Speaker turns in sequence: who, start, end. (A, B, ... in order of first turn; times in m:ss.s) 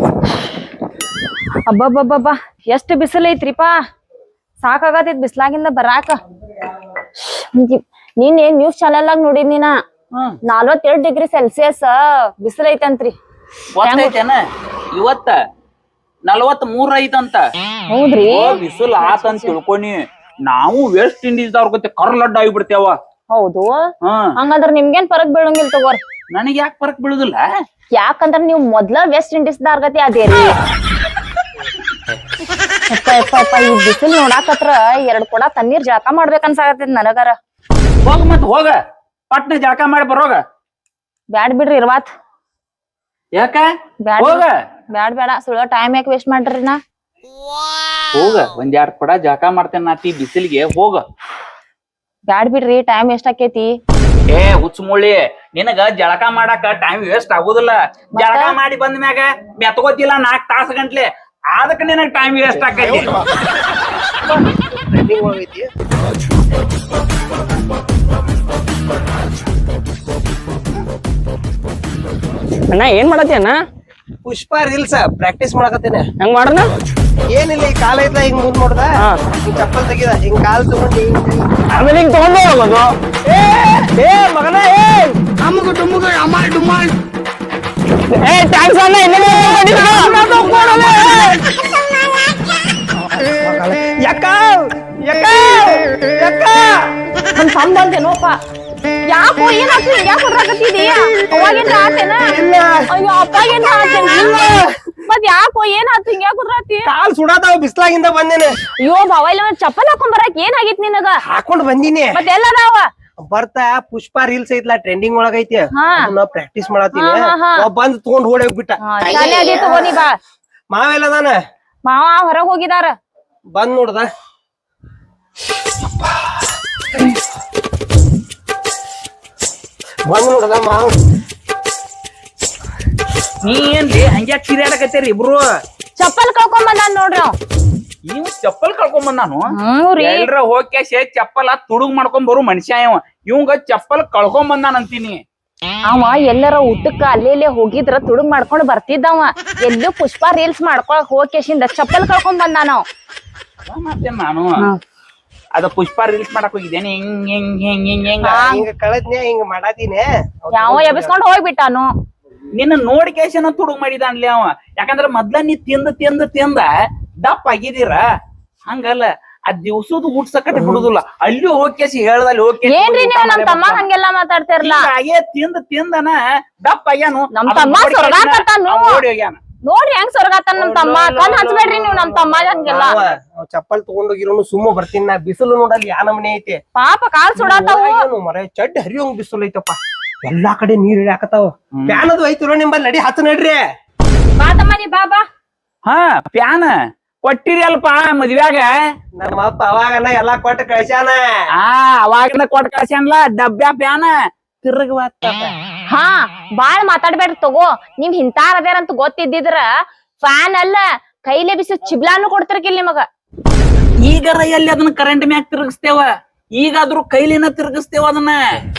0:01.7-0:03.8 A
0:04.6-0:06.2 A
0:07.2-0:09.7 A
0:10.5-0:13.1 A
0:13.7-0:14.4 B
0:13.8-0:14.1 A
0:14.9-0:15.3 B
0:16.3-0:17.4 B
0:17.9-0:19.6 A
0:18.3-0:22.9 B
0:23.3-0:23.8 A
0:24.0-0:24.3 B
0:24.4-0:26.0 A
0:26.3-0:27.4 B
0:28.0-0:30.6 A
0:32.9-0:37.3 A
0:38.0-0:38.8 B
0:39.3-0:40.4 B
0:41.3-0:42.1 A
0:43.3-0:43.7 B
0:44.0-0:46.8 A
0:44.2-0:44.5 B
0:48.1-0:51.0 B
0:52.3-0:53.7 A
0:54.3-1:03.1 B
0:58.2-0:58.6 A
1:04.2-1:05.7 C
1:12.7-1:13.6 D
1:14.2-1:16.0 C
1:16.2-1:16.7 D
1:17.3-1:21.4 C
1:21.7-1:22.9 D
1:23.3-1:23.9 B
1:23.9-1:25.1 C
1:28.1-1:30.3 D
1:29.3-1:31.4 C
1:29.6-1:31.2 A
1:33.0-1:36.9 C
1:37.3-1:38.4 A
1:39.1-1:42.4 A
1:42.3-1:42.8 C
1:42.9-1:46.9 A
1:44.3-1:44.6 C
1:46.8-1:48.5 C
1:48.8-1:51.2 A
1:51.2-1:52.2 C
1:52.1-1:52.9 A
1:53.3-1:59.9 C
1:55.7-1:56.1 A
1:56.9-1:57.6 A
1:58.8-2:00.2 A
2:00.7-2:01.4 C
2:01.8-2:02.9 A
2:03.5-2:04.1 C
2:10.0-2:10.9 C
2:13.4-2:15.4 B
2:16.0-2:17.3 A
2:18.1-2:19.4 B
2:19.6-2:20.3 A
2:20.0-2:25.2 B
2:25.9-2:32.8 A
2:33.7-2:34.5 B
2:35.5-2:38.4 B
2:38.2-2:41.1 C
2:38.2-2:38.6 A
2:40.5-2:41.9 A
2:42.5-2:46.7 B
2:47.2-2:48.0 B
2:48.7-2:53.8 B
2:50.6-2:50.8 C
2:52.7-2:54.9 A
2:54.6-2:59.4 B
2:57.3-2:59.0 A
2:59.7-3:03.0 A
3:00.6-3:01.8 B
3:02.6-3:06.6 C
3:06.8-3:08.0 A
3:07.4-3:13.6 C
3:11.8-3:12.0 B
3:14.4-3:15.2 A
3:15.8-3:18.7 B
3:19.2-3:21.2 C
3:21.6-3:25.5 B
3:25.9-3:29.7 A
3:30.2-3:33.0 A
3:34.0-3:36.0 B
3:36.6-3:38.4 B